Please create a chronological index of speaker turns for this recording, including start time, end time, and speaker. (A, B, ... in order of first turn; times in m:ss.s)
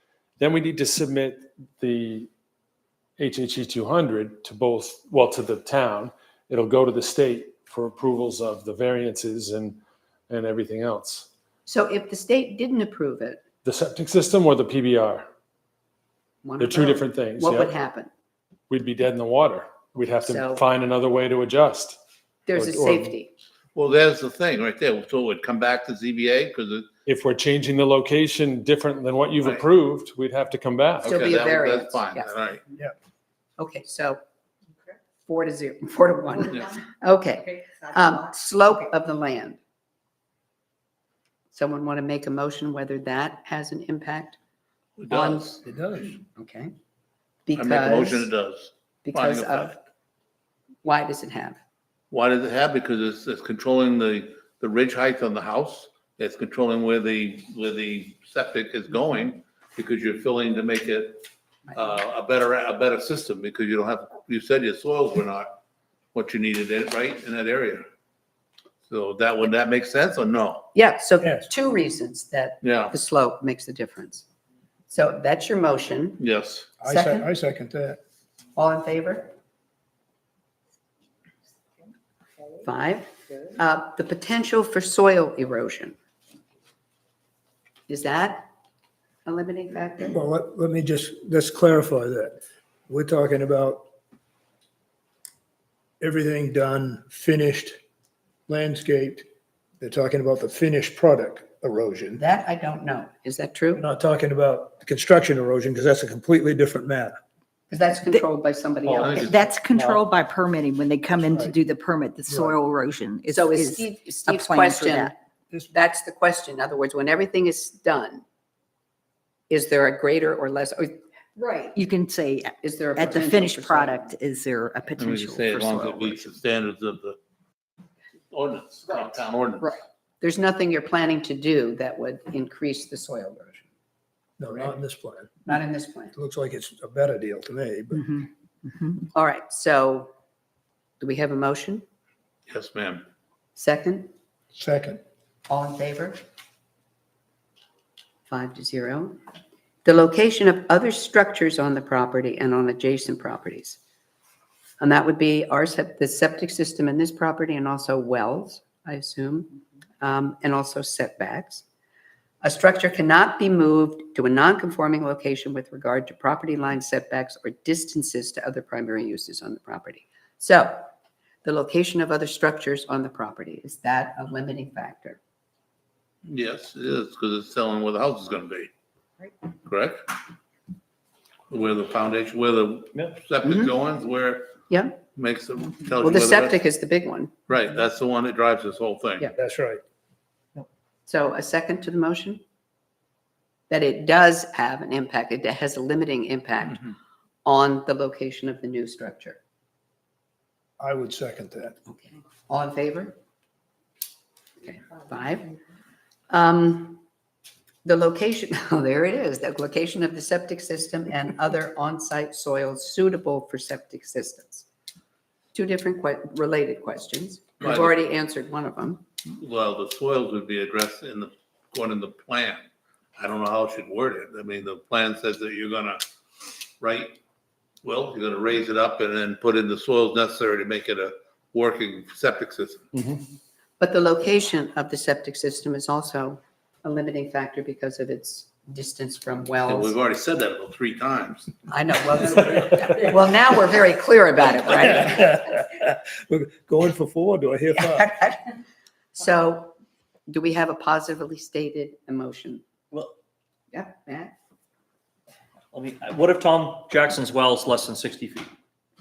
0:00.4-0:02.3 A
0:03.2-0:11.3 A
0:11.6-0:13.4 B
0:13.6-0:15.2 A
0:16.4-0:18.1 B
0:16.6-0:17.7 A
0:18.7-0:22.0 A
0:20.2-0:20.6 B
0:22.5-0:23.3 B
0:22.5-0:23.1 A
0:23.7-0:26.9 C
0:27.1-0:31.2 A
0:31.0-0:32.6 C
0:31.0-0:32.4 B
0:33.6-0:34.2 B
0:35.2-0:39.6 B
0:41.5-0:44.4 B
0:45.0-0:45.3 C
0:45.1-0:45.6 B
0:45.1-0:46.2 D
0:46.4-0:46.7 B
0:47.5-0:48.3 B
0:47.6-0:49.8 C
0:49.0-0:49.8 B
0:50.8-0:51.6 B
0:52.1-1:05.6 C
1:06.1-1:07.8 C
1:08.8-1:10.7 C
1:10.7-1:14.2 B
1:12.6-1:13.0 C
1:14.9-1:16.2 B
1:16.2-1:16.8 C
1:16.8-1:18.0 D
1:16.8-1:17.3 B
1:18.6-1:19.3 B
1:22.6-1:25.9 B
1:27.9-1:28.5 B
1:29.2-1:30.2 B
1:30.1-1:33.8 D
1:36.0-1:37.8 D
1:38.5-1:39.2 D
1:39.8-1:42.2 D
1:42.2-1:43.8 B
1:43.7-1:47.2 D
1:47.7-1:49.5 B
1:48.8-1:49.1 E
1:48.9-1:49.4 C
1:49.2-1:55.1 F
1:49.7-1:50.0 E
1:51.1-1:51.6 D
1:52.3-1:52.6 D
1:53.3-1:55.1 B
1:55.7-1:58.2 B
1:59.5-2:01.0 B
2:01.4-2:06.3 F
2:02.6-2:04.1 B
2:04.9-2:07.2 C
2:08.3-2:09.8 C
2:10.2-2:13.6 B
2:14.4-2:15.5 D
2:15.4-2:16.1 B
2:16.1-2:18.1 D
2:18.0-2:19.0 F
2:19.1-2:20.1 B
2:21.0-2:21.8 B
2:22.5-2:23.0 C
2:23.6-2:24.1 B
2:24.5-2:25.0 D
2:25.5-2:26.2 B
2:28.3-2:29.2 B
2:29.8-2:33.8 B
2:34.8-2:41.6 B
2:42.4-2:50.9 B
2:51.4-2:55.2 B
2:56.2-2:58.7 C
2:59.6-3:00.0 C
3:01.5-3:04.6 C
3:04.7-3:05.0 B
3:05.1-3:06.6 C
3:06.0-3:07.3 B
3:07.5-3:09.3 C
3:09.4-3:09.8 D
3:11.1-3:12.4 B
3:13.7-3:16.9 B
3:17.4-3:19.4 B
3:20.8-3:21.8 D
3:21.9-3:23.2 B
3:24.6-3:25.5 B
3:26.3-3:27.0 B
3:27.8-3:34.6 B
3:35.5-3:39.0 B
3:37.6-3:37.9 C
3:39.3-3:42.6 C
3:43.2-3:46.0 C
3:46.8-3:47.2 C
3:47.8-3:52.9 C
3:52.9-3:53.2 A
3:53.8-4:00.0 B
3:59.6-4:01.6 C
4:01.7-4:05.4 B
4:05.0-4:08.1 D
4:08.0-4:08.4 B
4:09.1-4:09.7 B
4:10.3-4:12.6 B
4:13.7-4:14.3 B
4:15.7-4:18.5 E